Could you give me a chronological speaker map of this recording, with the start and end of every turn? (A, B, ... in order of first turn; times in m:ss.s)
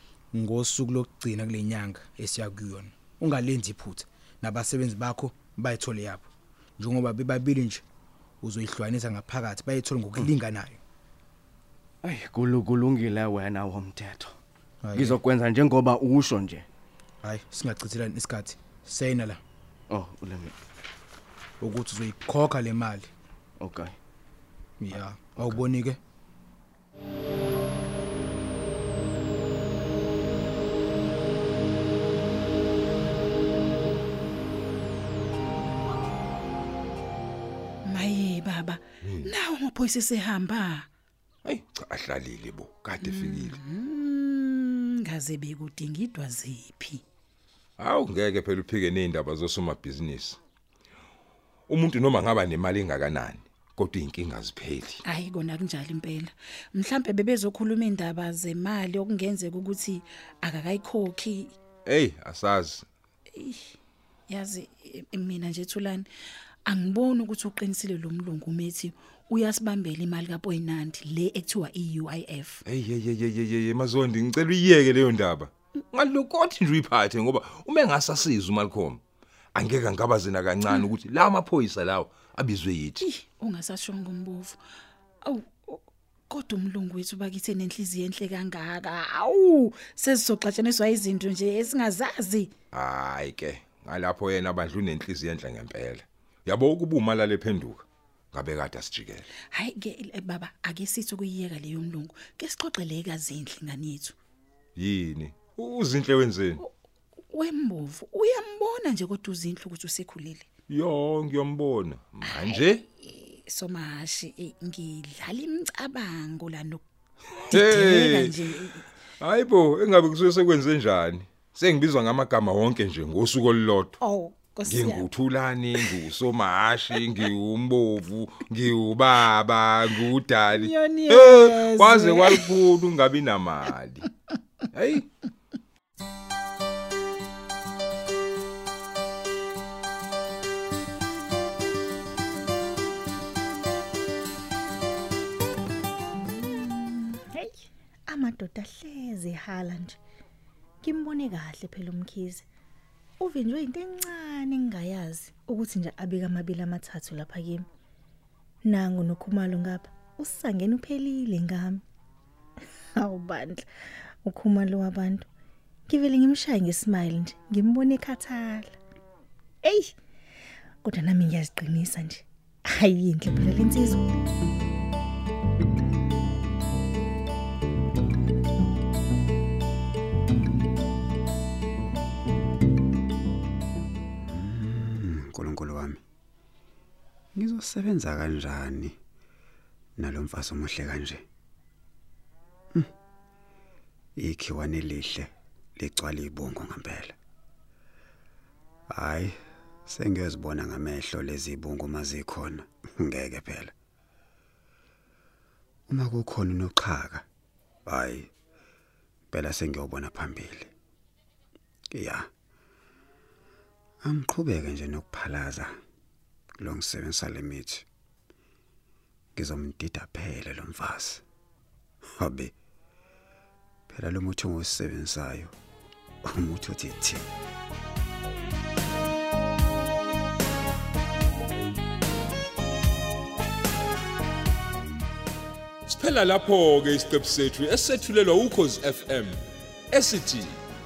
0:00.3-0:07.8 A
0:08.4-0:10.8 A
0:12.0-0:14.3 B
0:14.8-0:15.2 A
0:14.9-0:16.6 B
0:17.2-0:19.4 A
0:19.9-0:20.5 B
0:21.6-0:23.1 A
0:23.6-0:23.9 B
0:24.8-0:26.0 A
0:24.9-0:25.6 B
0:37.8-0:40.9 C
0:39.0-0:39.3 D
0:41.4-0:43.6 D
0:43.0-0:47.0 C
0:47.8-0:50.4 D
0:51.7-0:55.0 D
0:55.0-1:01.5 C
1:01.8-1:02.9 D
1:03.3-1:03.7 C
1:04.3-1:06.1 C
1:06.6-1:12.6 C
1:12.6-1:19.0 D
1:19.5-1:23.0 D
1:23.0-1:24.6 C
1:25.2-1:32.5 C
1:32.7-1:39.3 D
1:39.5-1:44.2 C
1:44.8-1:46.6 D
1:47.3-1:50.5 C
1:50.7-1:52.8 D
1:52.3-1:58.8 C
1:57.5-1:58.3 D
1:59.2-2:03.9 D
2:04.0-2:05.1 C
2:04.6-2:14.1 D
2:10.5-2:12.5 C
2:14.7-2:15.1 D
2:26.4-2:30.0 E
2:30.8-2:32.4 E
2:33.2-2:37.6 E
2:38.6-2:41.8 E
2:43.0-2:43.7 E
2:44.2-2:45.2 E
2:45.9-2:48.7 E
2:49.6-2:49.9 E
2:50.8-2:54.0 E
3:04.2-3:06.0 F
3:07.4-3:08.9 F
3:10.0-3:11.2 F
3:14.2-3:17.1 F
3:18.9-3:19.4 F
3:19.9-3:23.7 F
3:25.9-3:27.2 F
3:27.8-3:28.3 F
3:29.3-3:30.7 F
3:31.9-3:32.3 F
3:34.0-3:35.7 F
3:36.6-3:37.8 F
3:39.4-3:41.2 F
3:42.2-3:42.5 F
3:43.9-3:45.5 F
3:46.3-3:47.3 F
3:55.8-3:59.4 D
3:59.9-4:00.6 D